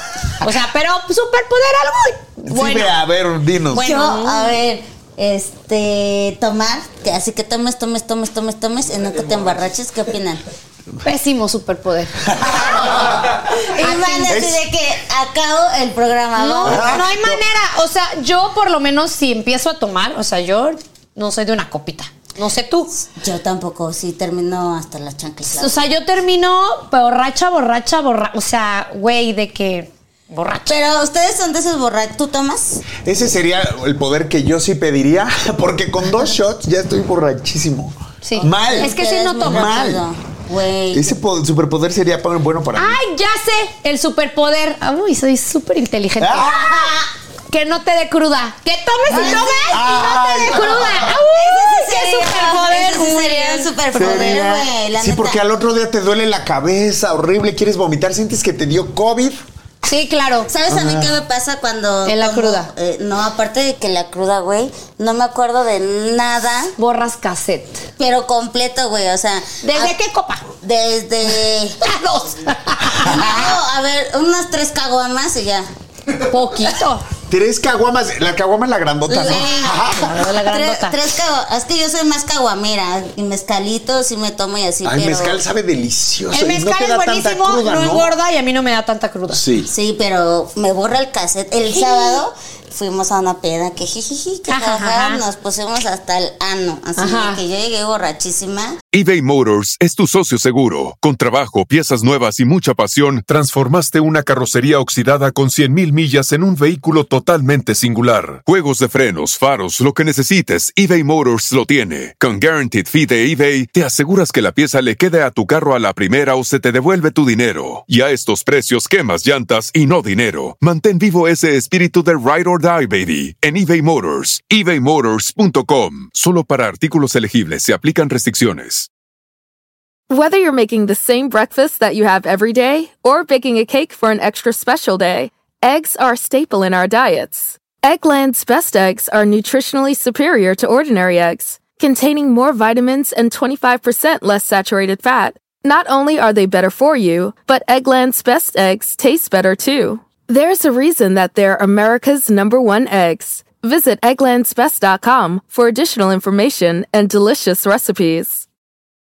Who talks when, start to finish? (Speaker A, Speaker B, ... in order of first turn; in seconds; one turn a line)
Speaker A: 0.4-3.0
Speaker B: 2.5-3.9
Speaker A: 3.7-4.5
Speaker C: 3.7-10.4
Speaker A: 11.0-12.8
Speaker B: 12.4-13.1
Speaker C: 13.5-17.0
Speaker A: 13.8-14.4
Speaker B: 14.3-14.6
Speaker A: 16.4-22.9
Speaker B: 16.6-17.4
Speaker C: 23.0-25.9
Speaker A: 25.4-30.8
Speaker C: 30.7-32.8
Speaker B: 33.0-40.0
Speaker A: 38.2-39.8
Speaker C: 38.4-41.1
Speaker B: 40.9-43.0
Speaker A: 42.8-46.9
Speaker B: 46.2-47.0
Speaker C: 46.6-47.0
Speaker A: 47.5-54.5
Speaker C: 49.1-50.1
Speaker B: 49.1-51.1
Speaker C: 50.6-55.4
Speaker B: 54.0-59.4
Speaker A: 59.9-60.5
Speaker C: 60.5-66.7
Speaker B: 60.7-61.2
Speaker A: 62.0-62.7
Speaker A: 66.8-67.9
Speaker C: 68.0-70.0
Speaker A: 69.6-70.5
Speaker C: 70.6-71.8
Speaker A: 71.8-73.4
Speaker C: 72.9-75.7
Speaker A: 76.2-77.0
Speaker B: 77.3-80.2
Speaker A: 79.1-81.0
Speaker C: 79.1-85.4
Speaker B: 84.8-88.1
Speaker A: 86.3-89.4
Speaker B: 89.3-89.7
Speaker C: 89.7-98.8
Speaker A: 91.7-92.2
Speaker A: 94.5-95.2
Speaker A: 97.0-97.4
Speaker D: 98.9-128.9
Speaker E: 130.1-158.4